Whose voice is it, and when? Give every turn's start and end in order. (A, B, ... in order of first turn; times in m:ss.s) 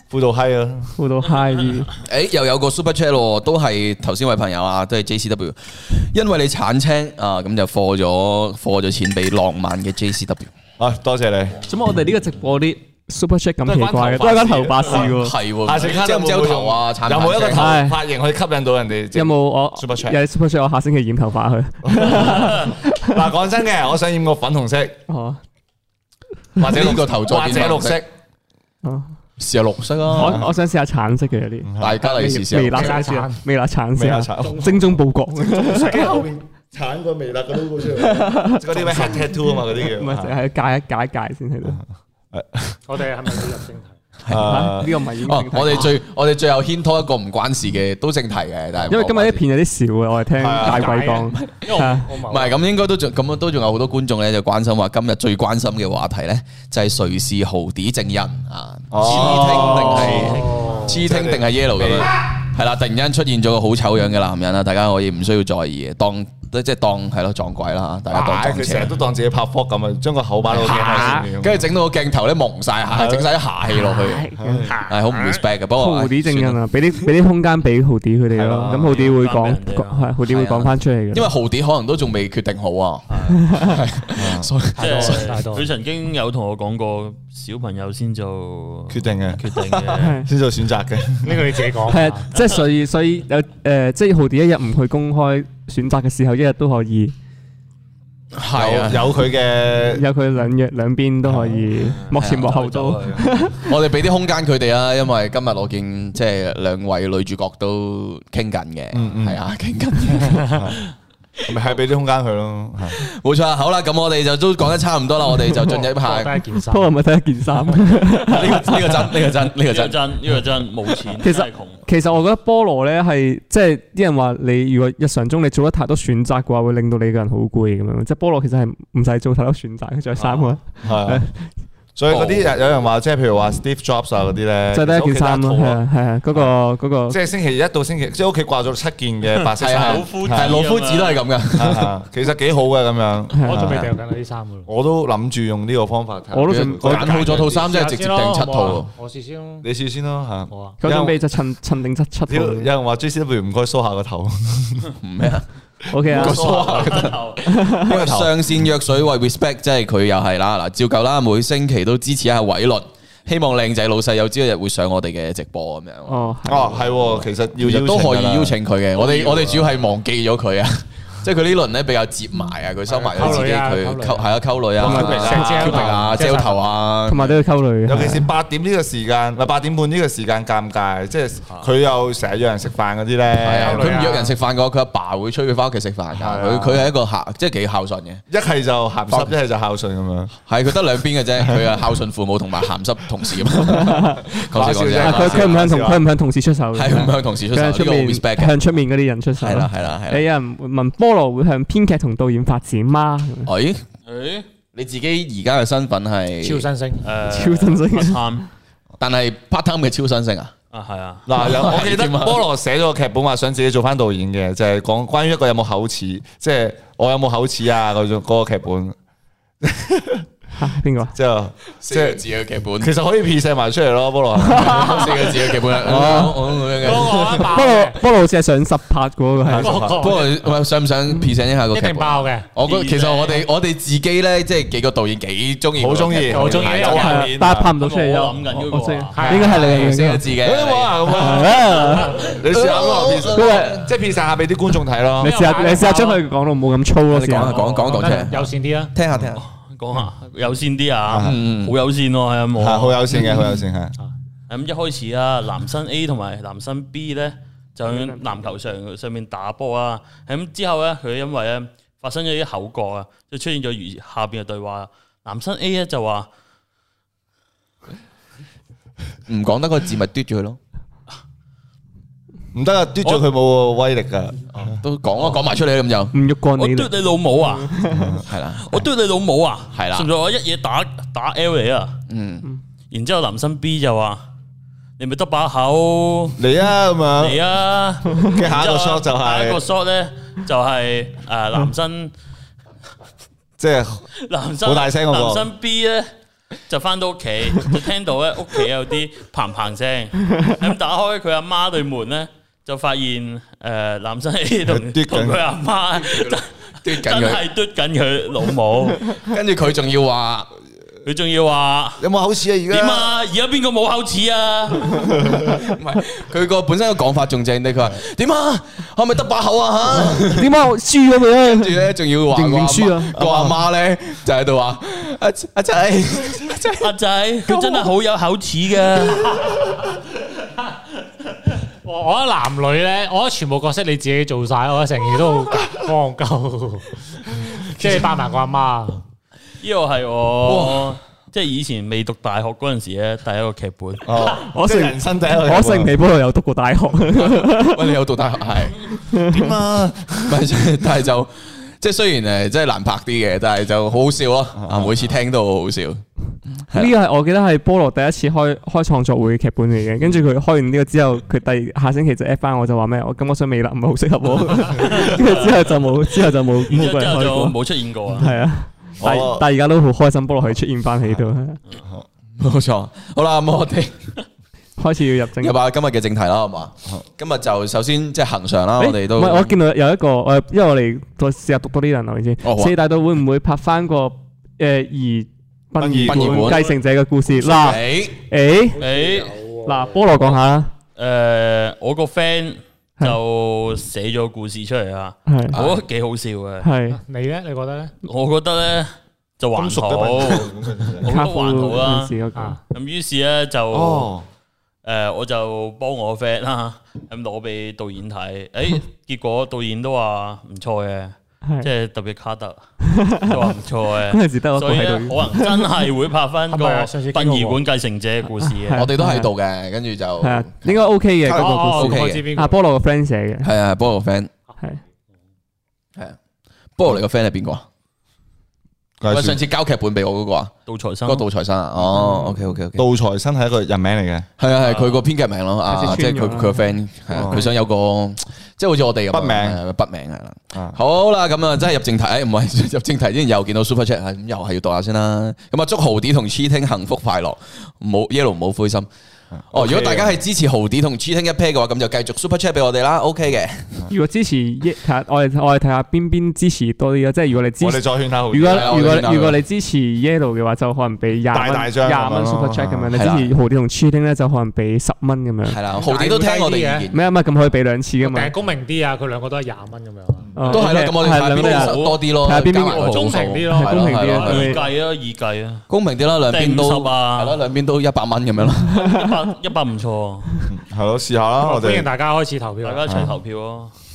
0:00.1-0:01.0 A
0:01.0-0:01.9 B
0:02.0-0:10.5 C
0:10.8-0:11.7 A
0:11.7-0:15.4 B
0:13.6-0:20.2 A
0:15.0-0:17.8 C
0:17.6-0:18.0 B
0:19.1-0:23.2 B
0:21.9-0:25.0 A
0:25.1-0:25.4 B
0:26.6-0:28.1 A
0:26.6-0:28.0 C
0:28.8-0:29.1 B
0:29.4-0:30.4 C
0:30.1-0:36.3 B
0:30.2-0:30.5 A
0:31.6-0:32.0 A
0:31.8-0:33.0 C
0:32.7-0:33.4 D
0:34.0-0:40.4 A
0:34.4-0:34.8 D
0:38.0-0:41.8 B
0:38.8-0:39.3 D
0:42.3-0:42.8 A
0:42.9-0:44.0 D
0:44.2-0:49.4 C
0:44.3-0:45.0 A
0:44.4-0:46.0 B
0:48.9-0:52.1 B
0:50.4-0:51.0 A
0:50.6-0:52.6 D
0:51.3-1:09.0 C
0:58.9-1:02.1 A
0:59.6-1:01.1 D
0:59.6-1:00.2 B
1:08.1-1:11.7 A
1:10.6-1:14.3 C
1:10.6-1:11.3 D
1:10.7-1:11.3 B
1:12.9-1:13.3 A
1:13.7-1:14.8 B
1:14.4-1:14.8 A
1:14.8-1:15.4 D
1:14.8-1:16.6 C
1:15.7-1:21.3 B
1:18.3-1:19.1 A
1:18.8-1:20.2 E
1:20.3-1:25.4 C
1:23.1-1:23.4 E
1:23.4-1:23.8 B
1:24.2-1:24.5 A
1:24.8-1:25.7 D
1:24.8-1:30.3 E
1:28.9-1:29.4 A
1:30.0-1:30.3 B
1:30.3-1:31.6 A
1:31.2-1:32.3 D
1:31.9-1:37.1 B
1:38.3-1:39.1 C
1:38.5-1:40.0 A
1:39.9-1:43.7 B
1:41.2-1:41.7 A
1:41.8-1:43.5 E
1:42.2-1:42.5 C
1:43.6-1:50.6 C
1:48.9-1:49.4 A
1:50.2-1:50.8 A
1:51.4-1:53.0 A
1:52.9-1:56.4 C
1:55.7-1:57.0 D
1:56.7-1:59.0 B
1:58.2-2:00.0 C
1:59.5-2:01.8 E
2:01.2-2:11.5 B
2:10.2-2:10.6 E
2:10.8-2:11.2 A
2:12.0-2:15.8 A
2:12.1-2:12.4 E
2:14.7-2:17.2 B
2:17.1-2:20.6 A
2:19.6-2:21.9 C
2:19.6-2:21.3 E
2:21.6-2:23.9 A
2:23.4-2:23.7 B
2:23.4-2:24.7 D
2:24.7-2:27.7 A
2:26.3-2:27.2 B
2:26.5-2:28.9 C
2:27.5-2:29.7 D
2:29.6-2:31.2 A
2:30.5-2:30.8 D
2:30.8-2:32.7 B
2:32.3-2:34.9 A
2:35.0-2:35.5 C
2:35.9-2:36.8 B
2:36.0-2:46.3 C
2:36.1-2:37.0 A
2:36.1-2:37.6 E
2:37.4-2:38.1 B
2:37.9-2:38.6 A
2:46.1-2:46.9 B
2:46.5-2:48.6 A
2:47.6-2:57.4 C
2:49.0-2:49.7 E
2:52.9-2:56.6 D
2:54.8-2:55.8 A
2:54.8-2:55.7 B
2:57.0-2:58.3 B
2:57.9-3:04.0 A
3:03.4-3:08.2 C
3:03.6-3:04.4 D
3:06.1-3:06.9 A
3:08.3-3:10.4 A
3:09.1-3:09.3 C
3:10.5-3:15.6 C
3:13.7-3:14.3 B
3:14.2-3:16.0 A
3:15.0-3:23.5 B
3:16.8-3:18.6 C
3:19.4-3:20.3 C
3:23.5-3:23.8 C
3:24.1-3:24.5 E
3:24.7-3:26.7 C
3:26.4-3:27.2 D
3:27.0-3:28.5 E
3:27.2-3:28.4 B
3:29.0-3:30.5 C
3:30.7-3:31.3 E
3:31.3-3:39.0 A
3:31.4-3:32.4 C
3:39.6-3:40.3 A
3:40.6-3:41.2 B
3:41.1-3:42.2 A
3:41.8-3:42.9 C
3:42.8-3:46.3 A
3:44.5-3:47.6 C
3:44.5-3:44.8 B
3:45.8-3:46.4 B
3:46.8-3:48.0 D
3:47.4-3:49.8 B
3:49.4-3:50.1 A
3:49.6-3:50.4 D
3:49.9-3:57.3 C
3:51.7-3:52.5 D
3:52.6-3:53.5 E
3:55.8-3:57.8 A
3:56.3-3:57.3 D
3:56.9-4:00.3 B
3:57.8-3:59.6 E
3:59.2-3:59.9 D
3:59.3-4:01.4 C
4:00.3-4:05.4 A
4:01.1-4:02.2 B
4:02.3-4:03.9 C
4:03.3-4:03.8 B
4:05.2-4:07.6 B
4:05.2-4:06.2 D
4:07.1-4:09.4 C
4:07.5-4:08.3 E
4:07.8-4:08.9 D
4:09.1-4:09.4 A
4:09.4-4:13.3 E
4:11.1-4:11.4 A
4:11.2-4:11.8 C
4:12.6-4:14.0 A
4:14.5-4:26.3 E
4:17.8-4:18.4 B
4:29.3-4:30.6 C
4:32.5-4:34.8 A
4:34.6-4:36.2 C
4:36.1-4:36.9 B
4:36.6-4:37.8 E
4:37.5-4:38.2 B
4:37.9-4:38.2 A
4:38.2-4:38.8 C
4:38.6-4:42.0 E
4:39.7-4:40.1 C
4:42.1-4:42.5 C
4:42.9-4:44.2 E
4:45.0-4:46.4 E
4:46.4-4:47.4 A
4:47.2-4:52.1 E
4:48.2-4:49.6 A
4:53.6-4:54.1 A
4:54.2-4:56.1 E
4:54.6-4:55.5 A
4:56.7-5:09.2 E
5:04.7-5:05.4 A
5:06.0-5:07.4 C
5:09.1-5:10.5 C
5:11.0-5:12.1 E
5:12.0-5:13.1 A
5:12.7-5:15.2 E
5:15.0-5:15.6 A
5:15.6-5:20.5 C
5:20.1-5:23.2 B
5:21.4-5:26.9 C
5:23.2-5:23.6 A
5:26.8-5:29.7 E
5:27.5-5:27.9 C
5:31.8-5:39.0 D
5:39.6-5:44.2 E
5:40.5-5:41.0 C
5:44.0-5:46.0 A
5:44.4-5:47.9 B
5:47.2-5:48.8 C
5:49.1-5:49.6 B
5:49.3-5:50.4 A
5:50.3-5:56.9 C
5:54.6-5:55.1 A
5:56.7-6:07.6 B
6:04.8-6:05.6 E
6:06.7-6:08.3 E
6:08.1-6:11.6 B
6:09.0-6:09.5 A
6:12.4-6:14.0 C
6:14.8-6:15.6 B
6:15.4-6:19.6 C
6:18.8-6:28.8 B
6:22.4-6:22.8 C
6:25.8-6:26.6 A
6:26.0-6:26.7 C
6:27.3-6:28.2 C
6:28.7-6:30.2 D
6:28.8-6:29.4 E
6:29.7-6:30.7 B
6:31.0-6:36.7 E
6:35.3-6:35.6 B
6:35.5-6:35.8 C
6:36.6-6:37.0 B
6:36.9-6:37.9 D
6:38.0-6:42.2 E
6:39.6-6:41.2 A
6:41.0-6:42.6 B
6:42.7-6:44.1 E
6:43.7-6:44.2 A
6:44.8-6:52.6 E
6:52.8-6:53.5 B
6:53.2-6:58.9 E
6:54.1-6:55.7 B
6:56.5-6:57.6 D
6:58.4-6:59.3 B
6:58.7-7:02.3 C
7:00.2-7:03.5 B
7:01.3-7:02.6 D
7:03.4-7:04.3 C
7:06.8-7:07.7 C
7:09.0-7:09.4 A
7:09.1-7:10.5 C
7:10.7-7:11.3 E
7:11.0-7:12.8 C
7:12.8-7:14.3 A
7:14.4-7:28.9 C
7:14.6-7:15.0 E
7:15.7-7:16.8 B
7:17.1-7:17.5 A
7:19.1-7:19.6 A
7:20.5-7:20.8 A
7:29.3-7:30.2 A
7:29.5-7:33.8 C
7:33.9-7:45.6 B
7:37.6-7:39.1 A
7:38.4-7:39.4 C
7:41.3-7:43.0 A
7:42.9-7:43.3 C
7:45.4-7:47.1 C
7:45.7-7:46.9 D
7:46.9-7:48.4 B
7:48.0-7:50.5 D
7:50.4-7:54.6 B
7:50.4-7:50.7 E
7:50.5-7:54.6 C
7:51.2-7:52.1 E
7:52.7-7:54.6 D
7:52.8-7:53.3 E
7:54.1-7:55.6 E
7:55.7-7:58.8 C
7:56.3-7:57.4 E
7:58.7-8:00.3 E
8:00.5-8:01.9 A
8:01.4-8:03.1 D
8:02.6-8:03.7 E
8:02.9-8:03.1 A